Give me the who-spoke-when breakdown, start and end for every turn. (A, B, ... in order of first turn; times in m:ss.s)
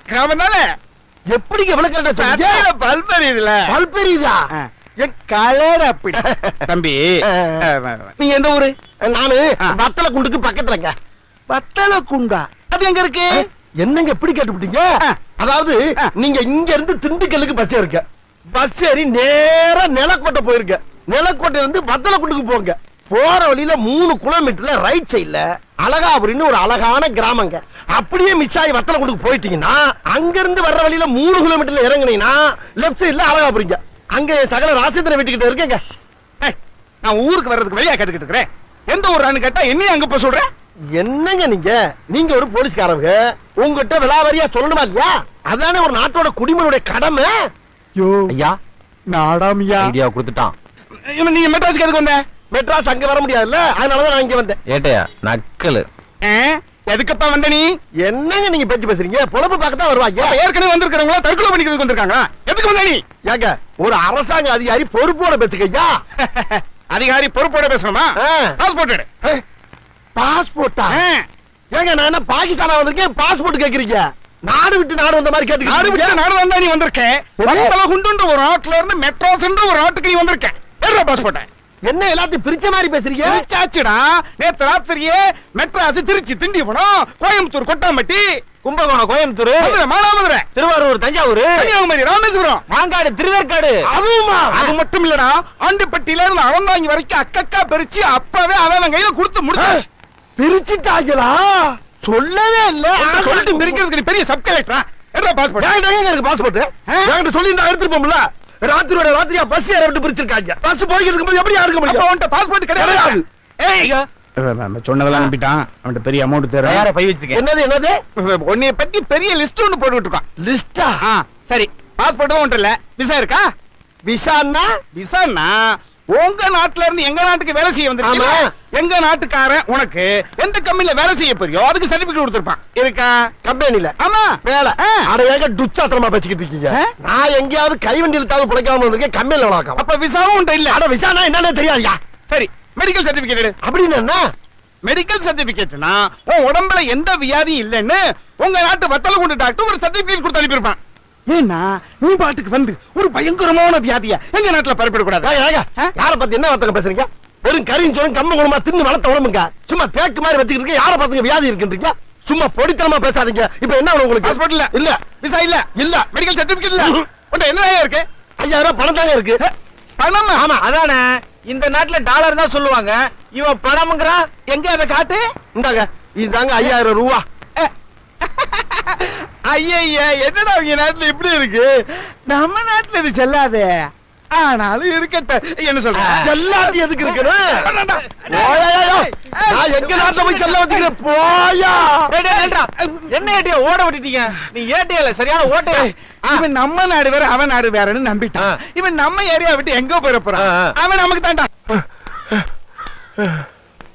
0:00.1-0:00.6 A
0:01.3-0:02.6 B
0:02.2-0:03.7 A
0:03.7-0:04.4 B
0:04.5-0:08.7 A
0:06.2-0:06.6 B
0:07.3-0:07.6 B
0:09.0-0:10.9 B
0:11.5-0:13.4 A
0:13.8-0:35.8 B
0:36.4-0:40.4 A
0:41.0-0:47.3 B
0:48.0-0:48.3 A
0:48.3-0:48.6 C
0:49.1-0:49.9 A
0:49.8-0:50.5 C
0:51.1-0:52.2 A
0:52.5-0:54.6 B
0:54.7-0:55.9 C
0:56.2-0:57.7 A
0:58.0-1:00.4 B
1:00.2-1:03.0 A
1:03.2-1:05.9 B
1:06.2-1:09.0 A
1:08.2-1:08.5 B
1:10.2-1:11.0 B
1:10.9-1:11.2 A
1:11.7-1:16.2 B
1:15.6-1:21.4 A
1:17.4-1:17.7 B
1:21.9-1:23.4 B
1:23.2-1:28.2 A
1:28.6-1:29.8 C
1:29.6-1:30.4 A
1:30.5-1:31.7 C
1:31.6-1:32.6 A
1:32.7-1:33.8 C
1:33.9-1:34.7 B
1:34.5-1:39.8 A
1:39.6-1:39.8 B
1:40.4-1:43.8 B
1:43.0-1:45.7 A
1:45.6-1:52.0 B
1:51.8-1:56.9 A
1:52.8-1:53.2 B
1:53.8-1:54.0 C
1:56.6-1:57.4 C
1:57.3-1:58.0 B
1:58.2-2:00.2 A
2:00.4-2:01.0 B
2:01.0-2:03.4 A
2:04.1-2:04.7 B
2:05.0-2:13.3 A
2:08.0-2:08.5 B
2:13.4-2:19.8 B
2:14.0-2:15.1 A
2:19.8-2:20.8 A
2:20.7-2:22.0 B
2:22.3-2:23.5 A
2:23.6-2:24.2 B
2:24.8-2:30.8 A
2:31.3-2:35.9 A
2:35.2-2:45.0 B
2:44.2-2:44.7 A
2:45.2-2:48.0 A
2:45.8-2:46.1 B
2:48.4-2:49.4 B
2:49.4-2:50.4 A
2:50.4-2:50.6 B
2:50.6-2:54.3 C
2:54.5-2:55.2 A
2:55.5-2:57.2 B
2:58.2-3:06.3 A
3:05.9-3:06.3 C
3:06.2-3:07.7 B
3:07.5-3:10.9 A
3:08.3-3:12.1 B
3:12.1-3:16.4 C
3:12.3-3:13.1 A
3:15.6-3:21.5 A
3:20.4-3:20.7 C
3:21.7-3:22.4 B